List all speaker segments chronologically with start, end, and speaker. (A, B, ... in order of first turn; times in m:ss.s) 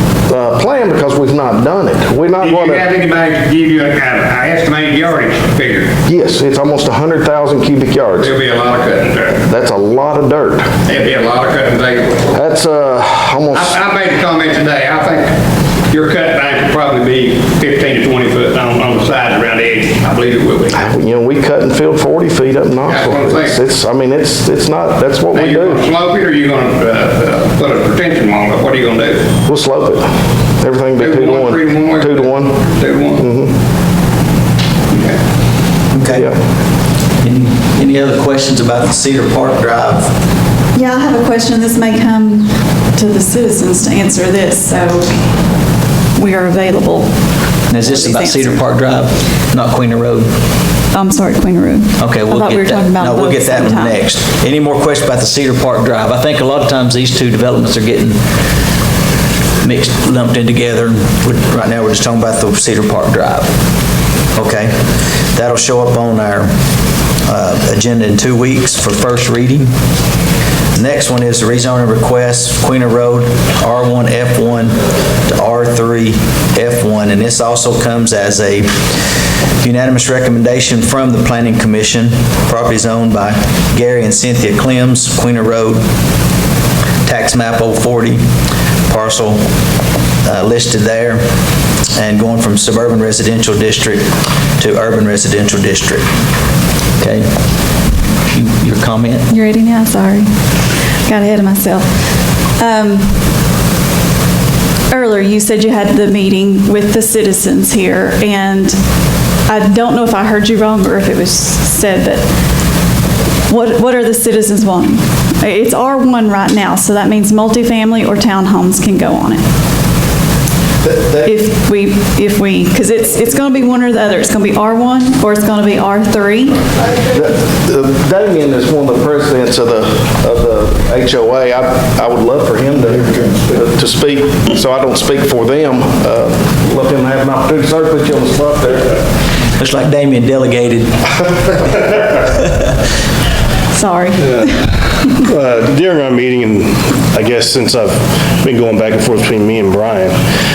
0:00.3-0:02.8 A
0:02.4-0:05.9 B
0:06.0-0:08.3 A
0:08.2-0:09.4 B
0:09.4-0:10.7 A
0:10.8-0:12.3 B
0:12.3-0:13.8 A
0:13.5-0:15.3 B
0:15.9-0:20.8 B
0:20.7-0:25.9 A
0:22.9-0:23.6 B
0:25.3-0:29.3 B
0:29.5-0:30.1 A
0:30.6-0:32.5 A
0:31.0-0:33.3 B
0:33.2-0:33.5 A
0:34.9-0:35.2 B
0:35.9-0:36.3 C
0:36.1-0:36.4 A
0:37.2-0:40.1 C
0:40.7-0:45.1 D
0:46.1-0:47.1 D
0:47.7-0:50.3 C
0:47.7-0:48.6 D
0:50.9-0:54.0 D
0:52.0-0:58.2 C
0:59.6-1:03.5 C
1:04.3-1:04.7 C
1:05.3-1:06.5 C
1:07.2-1:09.7 C
1:10.7-1:14.7 C
1:15.2-1:18.8 C
1:19.6-1:25.8 C
1:27.0-1:28.2 C
1:28.9-1:29.4 C
1:30.2-1:31.2 C
1:32.0-1:34.1 C
1:34.6-1:36.0 C
1:37.0-1:37.3 C
1:38.3-1:39.2 C
1:39.3-1:40.3 D
1:41.0-1:41.9 D
1:42.6-1:43.1 D
1:44.9-1:48.8 D
1:49.5-1:52.2 D
1:53.5-1:59.4 D
2:00.8-2:01.2 A
2:01.2-2:06.6 D
2:07.1-2:18.9 A
2:19.6-2:21.0 C
2:23.7-2:24.6 D
2:25.2-2:30.2 E